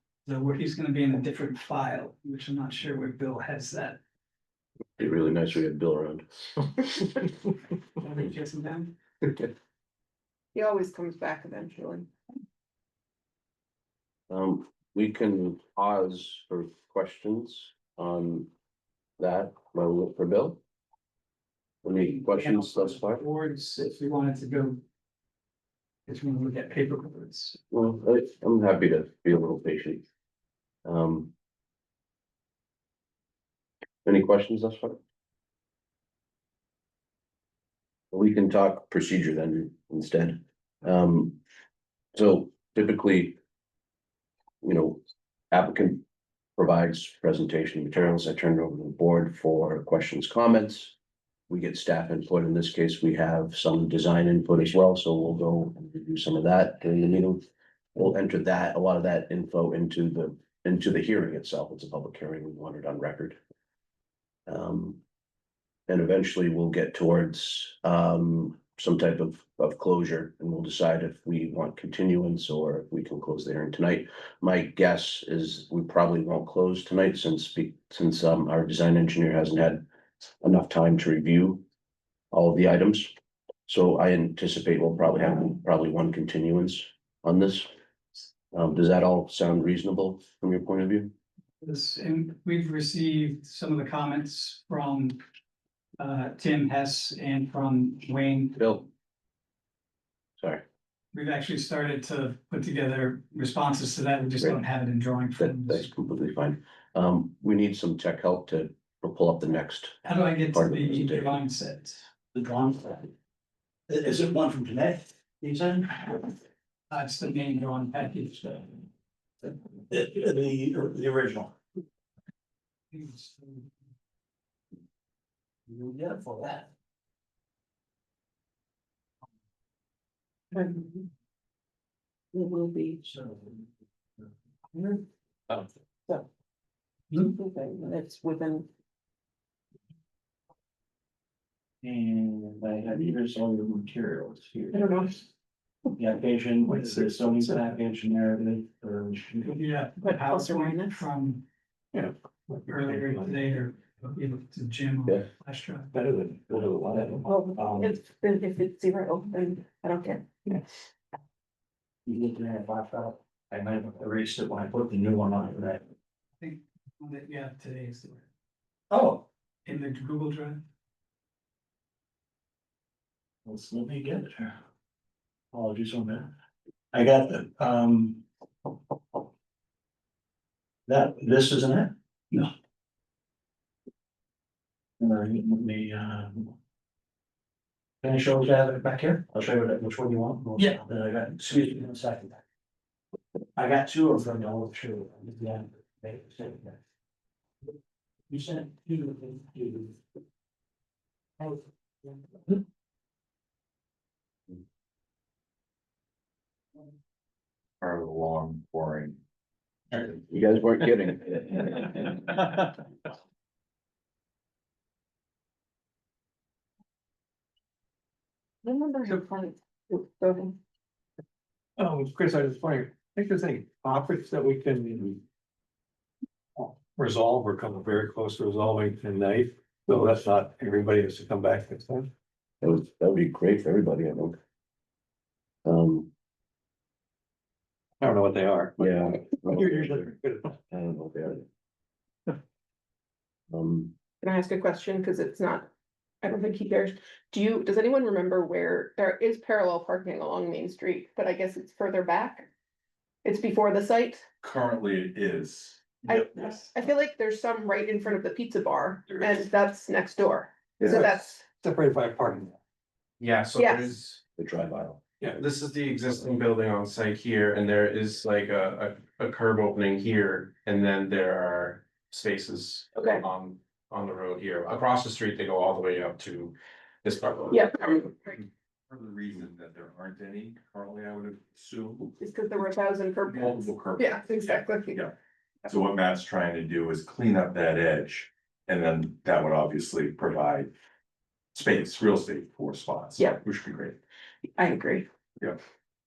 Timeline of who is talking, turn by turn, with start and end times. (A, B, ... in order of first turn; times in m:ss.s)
0:00.2-0:04.0 A
0:05.0-0:06.9 B
0:08.0-0:08.9 A
0:10.5-0:12.1 C
0:14.3-0:18.5 B
0:19.2-0:20.6 B
0:21.8-0:23.2 B
0:22.0-0:24.8 A
0:26.1-0:27.6 A
0:27.7-0:30.0 B
0:30.8-0:31.3 B
0:34.0-0:35.0 B
0:38.1-0:41.4 B
0:42.1-0:43.4 B
0:44.6-0:46.0 B
0:46.6-0:50.9 B
0:51.5-0:57.4 B
0:57.9-1:03.4 B
1:04.5-1:05.0 B
1:05.9-1:19.8 B
1:20.4-1:21.6 B
1:22.3-1:23.1 B
1:23.7-1:27.7 B
1:28.5-1:31.1 B
1:31.6-1:35.2 A
1:36.0-1:38.6 A
1:38.6-1:38.9 B
1:41.1-1:45.9 A
1:45.4-1:51.4 B
1:50.0-1:52.1 A
1:52.3-1:53.1 D
1:53.9-1:56.2 D
1:56.9-1:58.7 A
1:59.9-2:01.5 D
2:02.9-2:03.5 A
2:05.7-2:06.7 D
2:10.5-2:11.1 C
2:12.3-2:13.0 C
2:13.0-2:13.6 D
2:14.7-2:15.0 C
2:17.1-2:18.7 C
2:21.8-2:24.8 D
2:24.7-2:25.2 C
2:26.0-2:29.6 D
2:26.7-2:27.6 E
2:29.5-2:31.4 A
2:30.0-2:31.0 C
2:31.9-2:33.3 E
2:32.7-2:35.9 A
2:35.9-2:37.4 E
2:36.5-2:38.0 D
2:37.2-2:40.7 C
2:42.0-2:45.8 D
2:46.4-2:48.3 A
2:48.9-2:49.2 D
2:49.6-2:50.6 A
2:53.4-2:54.6 D
2:55.5-2:56.3 D
2:56.9-2:58.2 D
3:00.9-3:01.9 D
3:05.0-3:06.5 D
3:08.0-3:12.4 D
3:10.6-3:10.8 A
3:13.6-3:16.8 D
3:18.3-3:20.0 D
3:21.4-3:22.2 D
3:27.8-3:29.2 F
3:30.1-3:32.2 B
3:38.6-3:40.6 C
3:41.8-3:45.2 E
3:46.6-3:52.1 E
3:52.6-3:54.4 B
3:55.6-3:56.1 B
3:58.0-3:58.7 E
3:58.8-4:00.1 B
3:59.5-4:00.4 E
4:00.7-4:01.4 B
4:03.5-4:04.0 B
4:04.2-4:05.7 C
4:06.2-4:12.5 C
4:13.2-4:14.2 C
4:14.4-4:16.0 F
4:16.0-4:21.4 C
4:20.8-4:22.5 E
4:23.2-4:24.2 G
4:23.6-4:23.9 C
4:24.4-4:25.0 B
4:25.4-4:38.1 G
4:33.0-4:33.2 C
4:37.5-4:38.4 C
4:38.9-4:42.1 F
4:42.2-4:45.0 C
4:43.2-4:45.1 F
4:45.7-4:50.7 F
4:51.5-4:54.0 F
4:54.4-4:55.1 C